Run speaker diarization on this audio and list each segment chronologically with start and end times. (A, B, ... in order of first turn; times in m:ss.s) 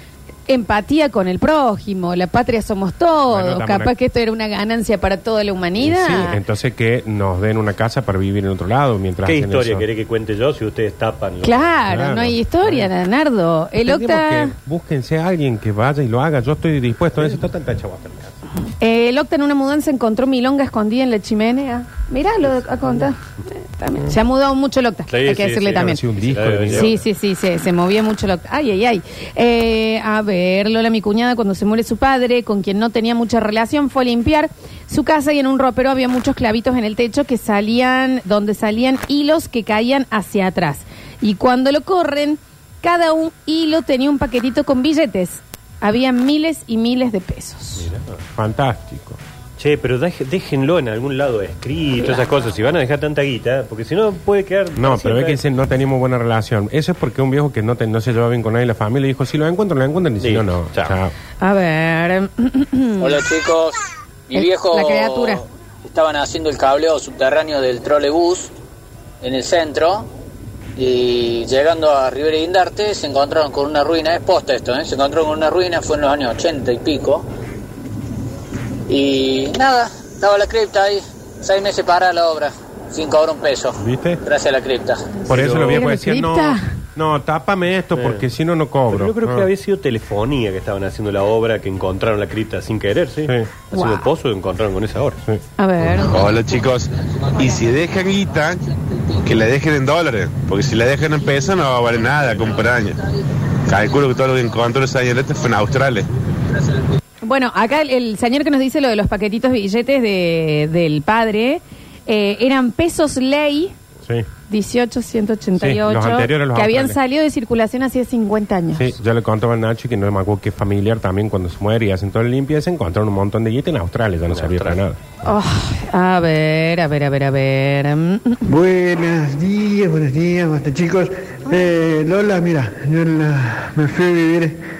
0:00.5-0:06.4 A
0:03.3-0:03.9 B
0:05.8-0:09.8 B
0:09.2-0:11.7 C
0:11.4-0:14.5 A
0:11.9-0:12.9 B
0:13.8-0:18.2 B
0:18.8-0:26.0 A
0:25.1-0:27.0 C
0:25.7-0:26.9 B
0:26.7-0:47.9 A
0:47.8-0:48.2 C
0:48.4-0:49.2 B
0:49.6-0:55.4 C
0:54.8-1:01.1 B
1:00.2-1:01.0 C
1:01.4-1:03.2 A
1:03.0-1:08.5 D
1:04.3-1:05.4 A
1:09.2-1:10.1 D
1:10.8-1:17.2 D
1:18.9-1:25.2 D
1:23.8-1:24.2 B
1:25.3-1:25.9 C
1:25.3-1:29.5 B
1:25.7-1:26.6 A
1:27.9-1:28.3 C
1:28.9-1:35.2 C
1:33.2-1:33.5 B
1:33.7-1:34.1 A
1:35.6-1:36.2 A
1:36.1-1:38.6 E
1:37.4-1:37.6 A
1:39.2-1:43.0 E
1:43.6-1:46.0 E
1:47.2-1:53.7 A
1:54.5-1:58.9 A
1:55.6-1:57.0 B
1:58.8-2:05.0 B
2:04.3-2:04.8 C
2:05.2-2:08.5 A
2:08.4-2:14.6 F